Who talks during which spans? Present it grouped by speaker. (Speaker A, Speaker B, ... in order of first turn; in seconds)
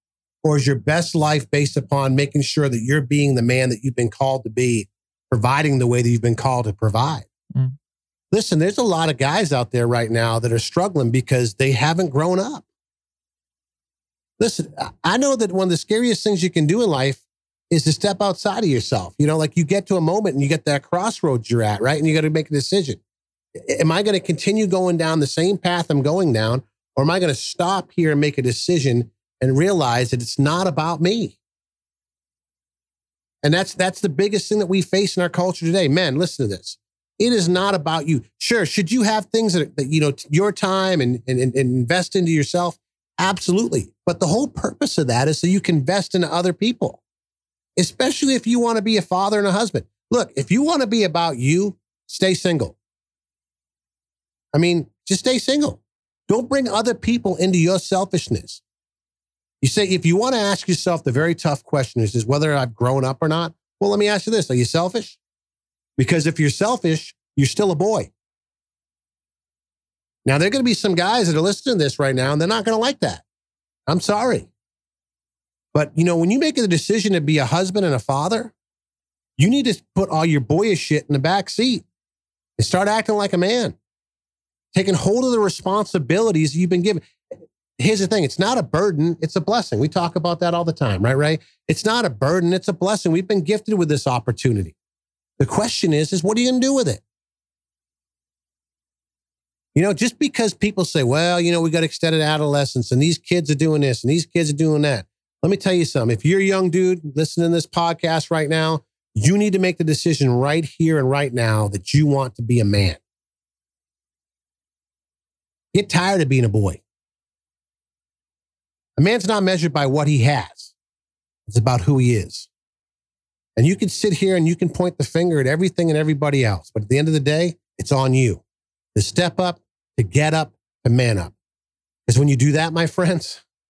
Speaker A: 0.4-7.2, 8.3-12.6, 14.4-23.0, 23.6-31.4, 33.4-47.0, 47.8-52.8, 54.5-58.6, 59.6-65.2, 66.0-68.1, 70.2-73.2, 73.9-74.5, 75.7-78.5, 79.4-81.8, 82.6-83.7, 84.7-87.1, 87.8-94.7, 95.4-97.0, 99.7-113.0, 115.7-116.8, 119.0-120.7, 121.5-122.5, 123.5-128.4, 128.9-131.3, 132.1-133.4